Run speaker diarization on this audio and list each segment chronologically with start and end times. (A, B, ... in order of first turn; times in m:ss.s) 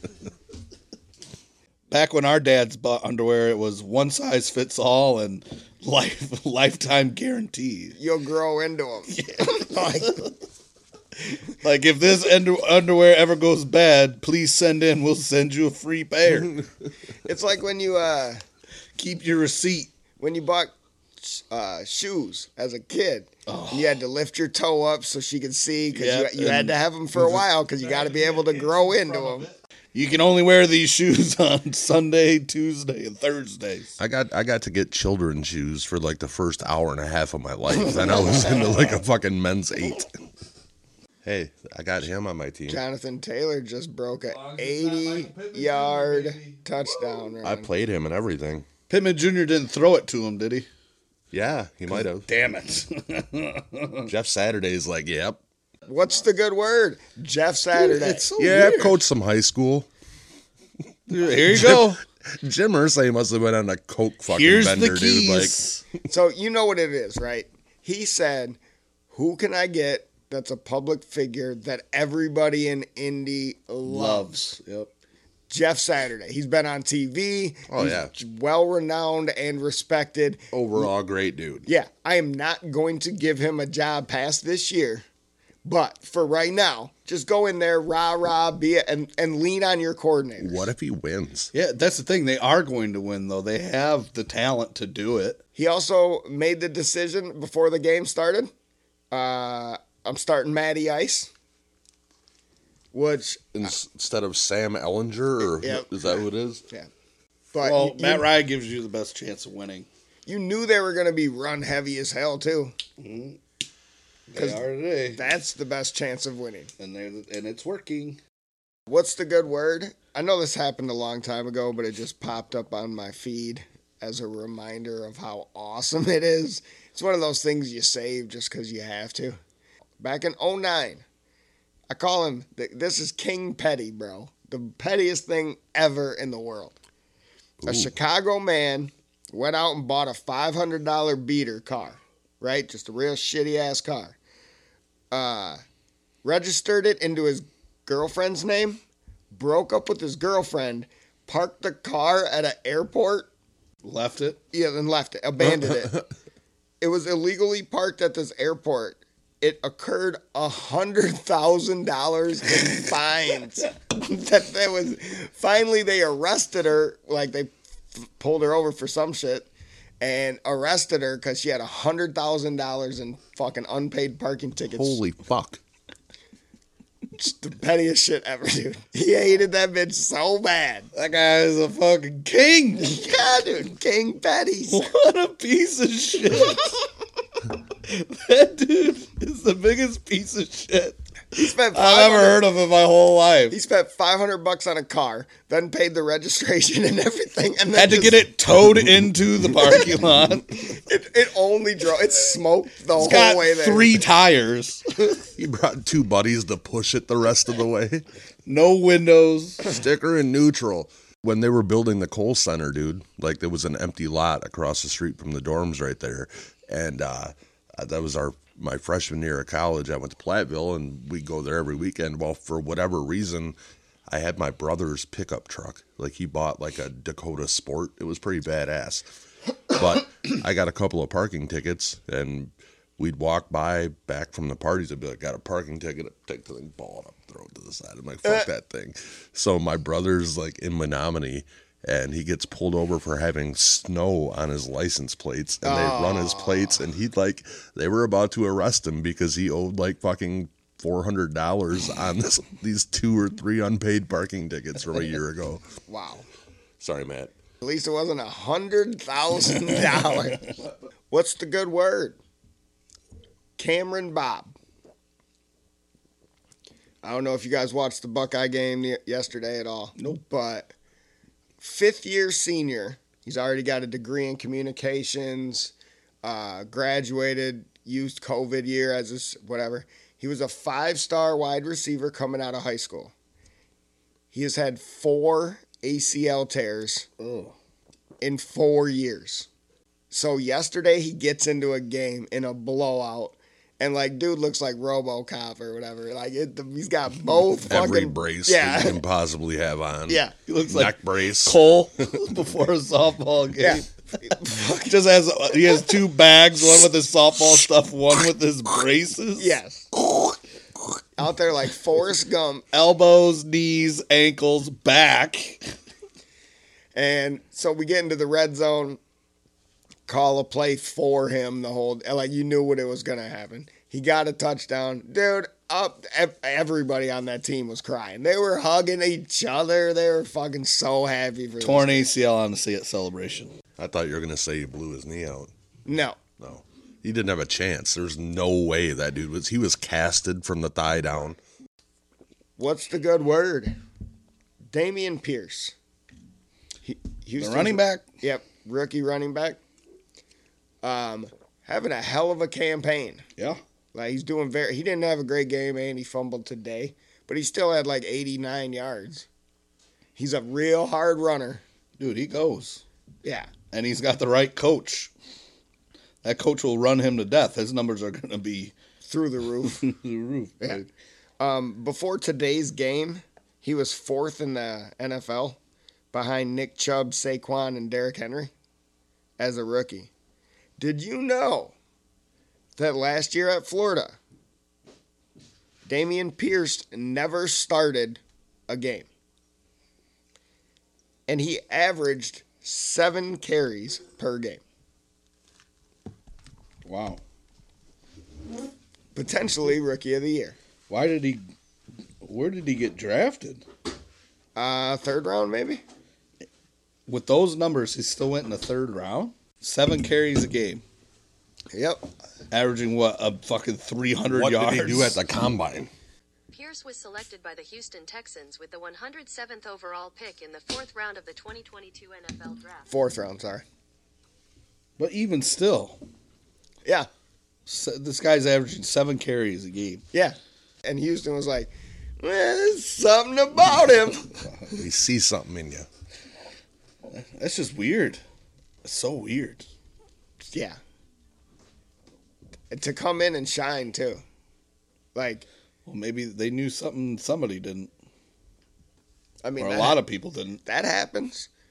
0:01.9-0:08.0 A
0:08.0-0:10.3 B
0:09.1-0:10.3 A
0:11.6-0:16.6 A
0:17.2-0:18.4 B
0:19.0-0:19.9 A
0:20.2-0:29.5 B
0:23.5-0:24.0 A
0:25.9-0:34.0 A
0:34.0-0:40.2 C
0:41.2-0:42.8 C
0:42.7-0:47.7 B
0:44.3-0:47.3 A
0:47.4-0:48.7 C
0:48.9-0:50.7 A
0:51.3-0:52.3 C
0:52.0-0:54.1 A
0:54.1-0:55.4 C
0:55.9-0:58.3 B
0:57.8-0:59.0 A
0:58.4-0:59.9 C
1:01.1-1:02.0 A
1:01.5-1:05.6 C
1:04.3-1:05.8 A
1:06.1-1:08.6 B
1:09.1-1:14.4 B
1:13.8-1:14.9 A
1:15.5-1:20.9 B
1:17.7-1:18.1 C
1:20.5-1:21.7 C
1:21.7-1:25.0 B
1:25.6-1:30.7 B
1:30.4-1:31.5 C
1:31.5-1:35.4 A
1:35.6-1:38.5 B
1:39.1-1:41.3 B
1:42.9-1:43.7 B
1:43.6-1:46.6 C
1:45.6-1:46.9 B
1:47.5-1:48.3 B
1:47.6-1:49.9 A
1:50.3-1:52.7 B
1:53.0-1:53.4 A
1:54.3-1:55.2 A
1:54.3-1:56.7 B
1:56.8-1:58.2 A
1:58.9-2:09.4 B
2:10.0-2:11.0 B
2:11.9-2:16.8 B
2:17.6-2:17.9 C
2:17.7-2:24.2 B
2:25.1-2:25.6 B
2:26.2-2:28.8 B
2:29.3-2:33.3 B
2:33.8-2:34.4 A
2:34.5-2:36.0 B
2:35.5-2:36.0 C
2:36.8-2:49.5 B
2:50.0-2:55.0 B
2:54.7-2:55.6 C
2:57.2-3:00.9 B
3:00.9-3:03.0 A
3:02.8-3:04.9 B
3:04.7-3:06.8 A
3:07.8-3:13.6 A
3:11.3-3:12.4 B
3:13.5-3:18.3 B
3:17.7-3:20.7 A
3:20.6-3:24.0 B
3:23.0-3:24.9 A
3:25.4-3:28.0 C
3:28.5-3:29.7 A
3:29.6-3:43.6 C
3:44.1-3:49.1 C
3:49.7-4:15.6 C
4:05.6-4:06.8 B
4:15.9-4:16.2 B
4:16.8-4:17.3 C
4:17.6-4:20.5 B
4:21.1-4:22.2 B
4:23.6-4:24.6 B
4:27.0-4:30.7 B
4:31.6-4:43.1 B
4:44.3-4:47.1 B
4:47.2-4:47.5 A
4:48.2-4:49.5 B
4:50.1-4:59.0 B
4:57.7-5:01.6 C
5:00.1-5:00.3 B
5:00.5-5:03.9 A
5:03.6-5:04.9 B
5:04.5-5:09.5 A
5:09.4-5:09.9 B
5:11.2-5:12.6 B
5:12.7-5:15.7 A
5:17.0-5:19.0 B
5:20.1-5:32.1 B
5:31.6-5:33.5 A
5:33.8-5:35.5 C
5:35.9-5:36.2 B
5:36.4-5:41.4 C
5:42.6-5:43.8 B
5:44.7-5:45.7 B
5:46.9-5:49.6 B
5:47.4-5:48.0 A
5:50.8-5:53.2 B
5:53.9-5:59.3 B
6:00.2-6:01.6 B
6:02.0-6:02.8 A
6:03.2-6:03.5 B
6:03.7-6:05.1 A
6:06.2-6:08.7 A
6:09.0-6:09.8 B
6:09.8-6:10.8 A
6:10.6-6:10.9 B
6:11.4-6:15.6 B
6:16.1-6:18.5 B
6:19.4-6:20.1 B
6:20.8-6:21.7 B
6:22.8-6:24.2 B
6:25.9-6:29.1 B
6:31.3-6:34.6 B
6:36.8-6:37.2 A
6:39.2-6:40.6 B
6:40.9-6:41.4 A
6:42.2-6:43.6 A
6:44.6-6:45.8 B
6:47.1-6:50.8 A
6:51.7-6:52.0 B
6:52.5-6:55.2 A
6:54.3-6:55.9 C
6:56.5-7:02.9 D
7:02.9-7:03.6 B
7:05.0-7:06.0 A
7:07.7-7:10.0 A
7:10.1-7:14.3 B
7:14.7-7:15.9 C
7:17.1-7:18.2 A
7:18.8-7:19.6 A
7:20.5-7:20.8 B
7:22.7-7:24.2 B
7:25.2-7:25.5 B
7:25.9-7:27.9 A
7:29.4-7:30.0 B
7:29.6-7:30.6 A
7:30.6-7:31.5 B